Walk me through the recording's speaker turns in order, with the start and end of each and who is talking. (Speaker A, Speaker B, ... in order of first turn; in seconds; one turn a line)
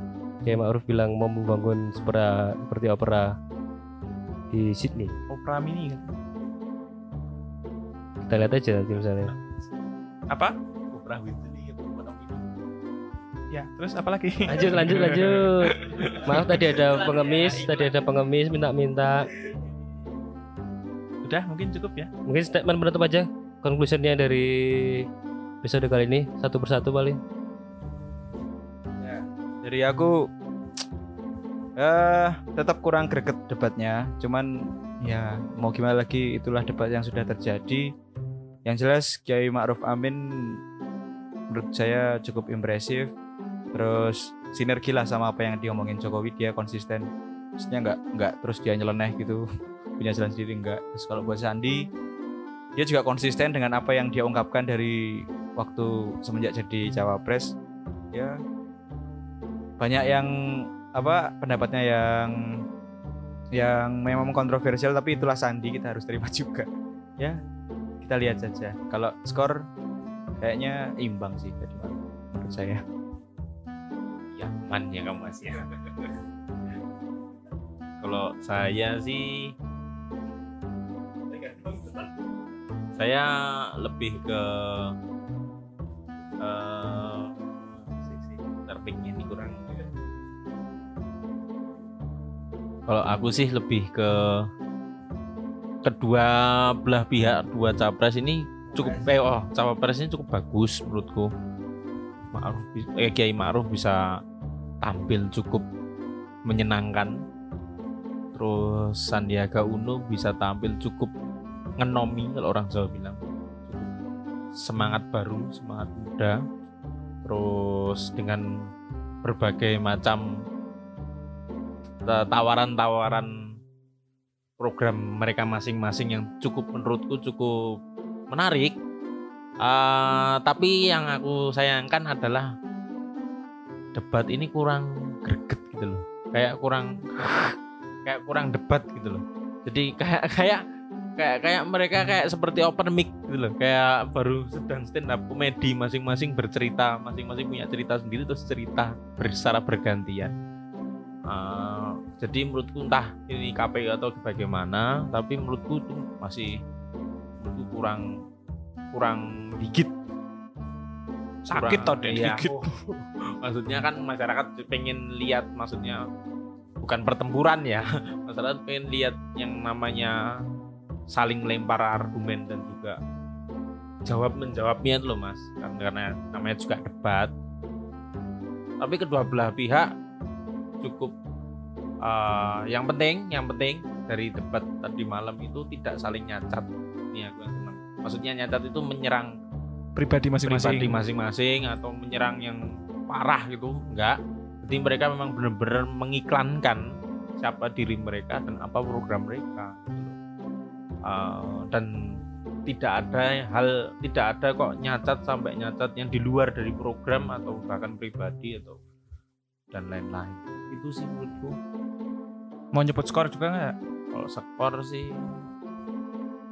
Speaker A: 0.4-3.4
Speaker A: 4.5-5.2
Speaker B: 5.3-6.1
Speaker A: 8.2-9.3
Speaker B: 10.3-10.6
Speaker C: 10.9-12.6
Speaker B: 13.5-16.6
Speaker A: 14.4-19.3
Speaker C: 15.9-18.0
Speaker B: 21.2-22.1
Speaker A: 22.3-25.1
Speaker A: 25.6-27.2
Speaker D: 29.0-30.3
Speaker D: 31.8-37.9
Speaker D: 38.7-40.6
Speaker D: 41.5-43.1
Speaker D: 43.7-47.1
Speaker D: 47.6-49.4
Speaker D: 50.0-51.8
Speaker D: 52.8-57.5
Speaker D: 59.8-62.4
Speaker D: 63.5-66.7
Speaker D: 68.0-69.6
Speaker D: 70.4-72.8
Speaker C: 74.3-75.7
Speaker C: 78.0-79.5
Speaker D: 81.4-82.0
Speaker C: 83.0-85.0
Speaker C: 86.4-89.7
Speaker C: 92.9-94.5
Speaker C: 95.8-101.3
Speaker D: 98.7-99.1
Speaker C: 102.3-104.1
Speaker C: 104.8-105.7
Speaker C: 106.5-107.2
Speaker C: 108.3-111.1
Speaker C: 111.8-113.9
Speaker C: 114.6-116.4
Speaker C: 117.2-118.5
Speaker C: 119.2-120.2
Speaker C: 122.0-123.5
Speaker C: 124.6-127.6
Speaker C: 128.3-128.8
Speaker C: 129.6-132.5
Speaker C: 133.9-140.6
Speaker C: 141.2-150.3
Speaker C: 151.3-156.6
Speaker C: 157.4-158.1
Speaker C: 158.9-159.9
Speaker B: 161.5-162.6
Speaker C: 161.5-166.1
Speaker C: 166.8-170.2
Speaker C: 171.1-173.0
Speaker C: 174.1-177.3
Speaker C: 178.8-179.9
Speaker C: 180.8-181.1
Speaker C: 182.0-189.3
Speaker B: 189.9-191.0
Speaker C: 190.4-200.2
Speaker C: 201.1-208.8
Speaker C: 209.7-211.6
Speaker B: 212.7-213.7
Speaker C: 214.1-215.3